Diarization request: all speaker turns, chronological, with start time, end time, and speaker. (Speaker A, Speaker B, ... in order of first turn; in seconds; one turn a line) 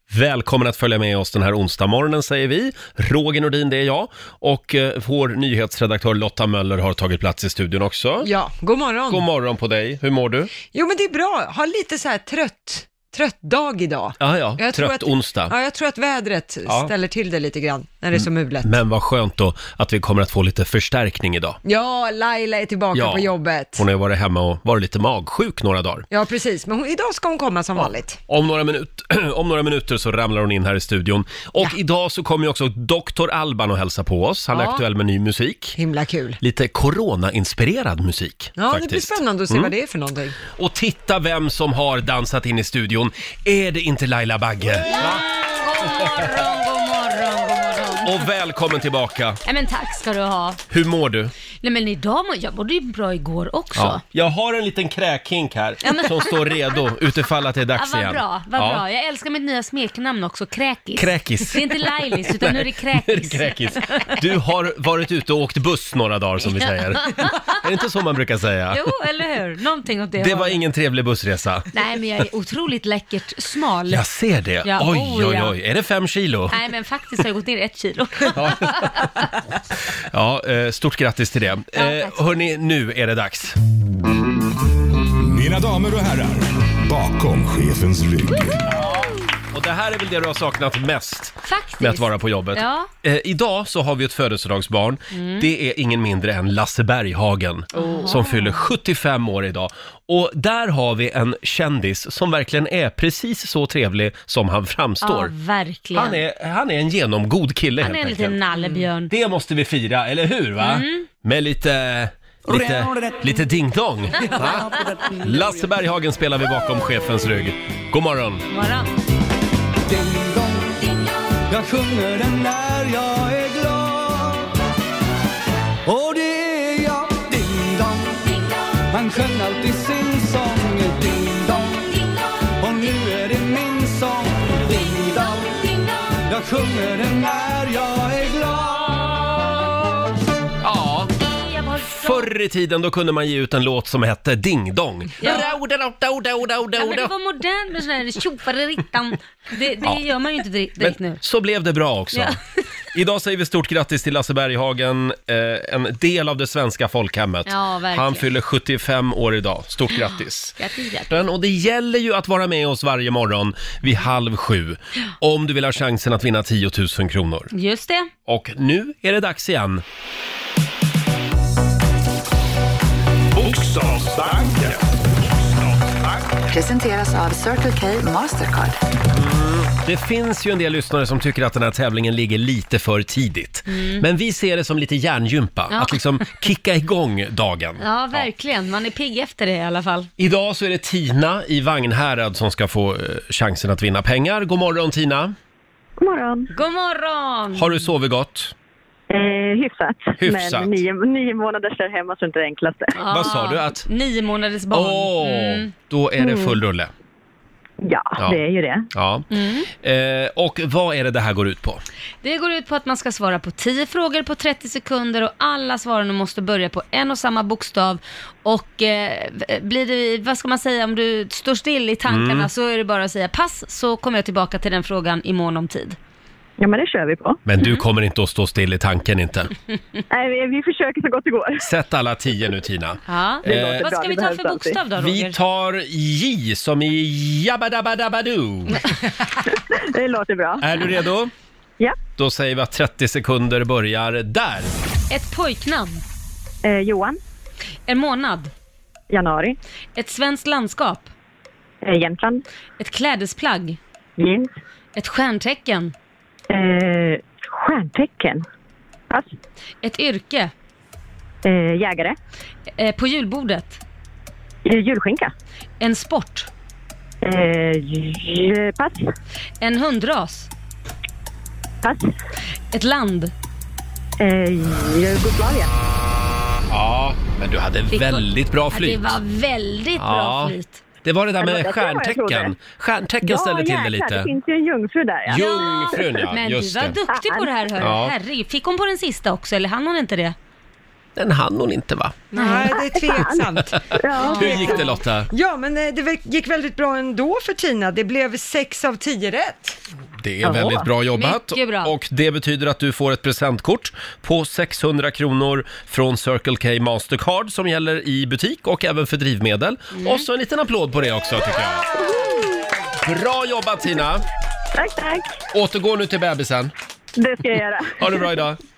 Speaker A: 0.1-8.3
Speaker B: 8.2-9.2
Speaker A: 9.1-10.5
Speaker B: 10.7-18.8
Speaker A: 14.2-15.5
Speaker A: 16.7-16.9
Speaker A: 18.1-21.6
Speaker B: 21.6-23.8
Speaker A: 22.9-26.0
Speaker B: 26.1-28.2
Speaker A: 27.8-35.8
Speaker B: 34.5-34.8
Speaker B: 35.8-36.4
Speaker A: 36.4-39.7
Speaker B: 38.6-40.4
Speaker A: 40.5-45.2
Speaker C: 44.8-48.3
Speaker A: 45.9-46.2
Speaker A: 48.0-49.4
Speaker C: 49.4-50.6
Speaker A: 50.7-51.3
Speaker C: 51.6-54.0
Speaker A: 53.8-58.8
Speaker C: 55.8-56.6
Speaker C: 57.8-64.2
Speaker A: 61.0-68.8
Speaker C: 66.5-67.5
Speaker C: 68.7-70.6
Speaker A: 70.2-71.7
Speaker C: 71.7-74.0
Speaker A: 73.9-76.5
Speaker C: 74.6-75.5
Speaker C: 76.5-79.1
Speaker A: 78.3-79.1
Speaker A: 80.1-83.6
Speaker C: 81.8-82.3
Speaker D: 85.2-88.6
Speaker A: 88.7-105.3
Speaker C: 91.4-92.9
Speaker C: 95.1-95.5
Speaker C: 97.7-98.7
Speaker C: 105.0-106.2
Speaker A: 105.9-108.4
Speaker C: 107.8-109.1
Speaker A: 109.1-118.4
Speaker C: 110.6-111.1
Speaker E: 112.6-113.2
Speaker E: 114.4-115.2
Speaker C: 118.5-118.9
Speaker E: 119.9-120.9
Speaker E: 121.5-124.5
Speaker E: 125.8-128.2
Speaker E: 128.9-131.9
Speaker E: 132.6-135.6
Speaker C: 134.9-136.2
Speaker E: 136.3-139.9
Speaker A: 140.6-141.1
Speaker C: 141.2-142.3
Speaker A: 142.0-147.1
Speaker C: 145.2-145.6
Speaker C: 146.8-151.2
Speaker A: 150.8-152.4
Speaker C: 152.1-152.4
Speaker A: 152.9-160.5
Speaker C: 157.5-158.3
Speaker C: 159.9-161.1
Speaker A: 161.1-167.5
Speaker C: 167.5-168.1
Speaker A: 168.3-169.8
Speaker D: 173.3-176.4
Speaker F: 176.5-178.8
Speaker A: 179.1-188.3
Speaker C: 183.7-184.0
Speaker C: 185.7-186.0
Speaker C: 187.8-190.1
Speaker A: 190.2-195.3
Speaker G: 196.0-196.5
Speaker C: 196.5-197.8
Speaker A: 197.5-198.5
Speaker G: 199.1-202.9
Speaker A: 200.2-200.8
Speaker C: 202.9-205.7
Speaker A: 203.1-203.8
Speaker A: 204.7-206.9
Speaker G: 206.2-206.6
Speaker G: 207.8-208.9
Speaker A: 208.9-211.8
Speaker C: 209.3-209.7
Speaker C: 212.2-226.0
Speaker A: 222.1-222.5
Speaker G: 226.6-227.4
Speaker A: 227.4-229.5
Speaker G: 230.1-231.6
Speaker A: 231.6-233.9
Speaker C: 233.1-235.4
Speaker G: 233.4-234.8
Speaker A: 234.9-238.9
Speaker G: 239.5-240.6
Speaker A: 240.6-241.3
Speaker A: 242.2-244.7
Speaker C: 245.1-246.0
Speaker G: 246.6-247.2
Speaker C: 247.9-248.5
Speaker G: 249.1-249.6
Speaker C: 249.9-251.1
Speaker G: 251.8-252.4
Speaker C: 252.8-253.8
Speaker G: 254.2-254.5
Speaker C: 254.9-255.9
Speaker G: 256.5-258.4
Speaker C: 259.8-260.5
Speaker G: 261.4-262.2
Speaker C: 262.8-263.8
Speaker G: 264.6-265.3
Speaker C: 265.8-266.5
Speaker G: 267.2-269.1
Speaker C: 269.6-270.5
Speaker G: 271.8-272.1
Speaker C: 272.7-273.3
Speaker G: 274.2-275.7
Speaker A: 276.7-279.2
Speaker C: 277.9-280.8
Speaker A: 280.0-284.3
Speaker G: 281.4-282.5
Speaker G: 283.2-285.4
Speaker A: 285.3-287.0
Speaker C: 285.3-290.3
Speaker A: 287.8-288.1
Speaker A: 291.1-292.2
Speaker B: 292.3-299.8
Speaker C: 292.3-292.7
Speaker G: 292.6-293.4
Speaker A: 293.7-295.3
Speaker G: 293.9-294.8
Speaker C: 294.2-294.8
Speaker A: 300.2-311.9
Speaker G: 300.4-300.8
Speaker C: 301.1-301.9
Speaker C: 309.9-310.2
Speaker G: 311.9-312.6
Speaker A: 313.0-314.2
Speaker G: 314.8-315.4
Speaker A: 315.5-316.7
Speaker G: 317.2-318.3
Speaker A: 318.0-318.6